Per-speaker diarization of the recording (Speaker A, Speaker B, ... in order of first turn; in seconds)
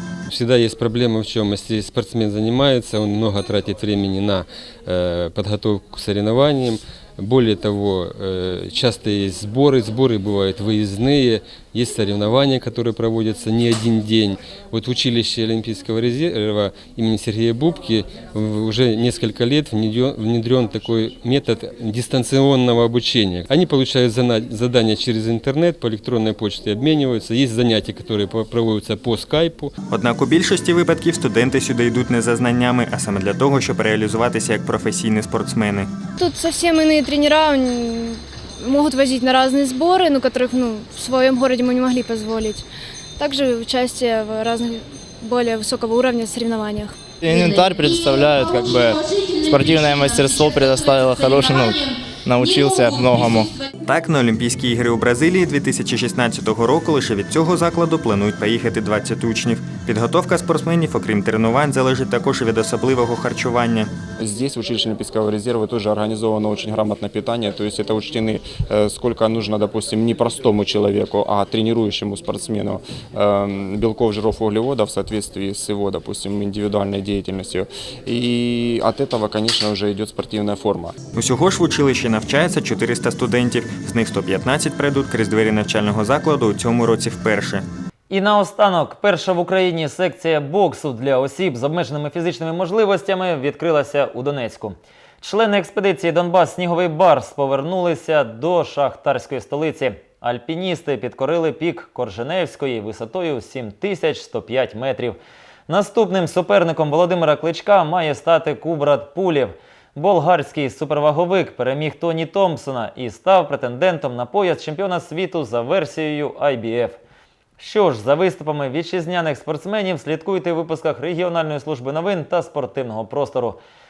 Speaker A: 0.3-29.7
Speaker B: 29.9-35.9, 53.9-63.9, 81.1-87.7
Speaker C: 36.2-42.7, 43.2-47.0
Speaker D: 47.2-53.5
Speaker E: 64.2-81.0
Speaker F: 88.1-117.0, 117.6-123.6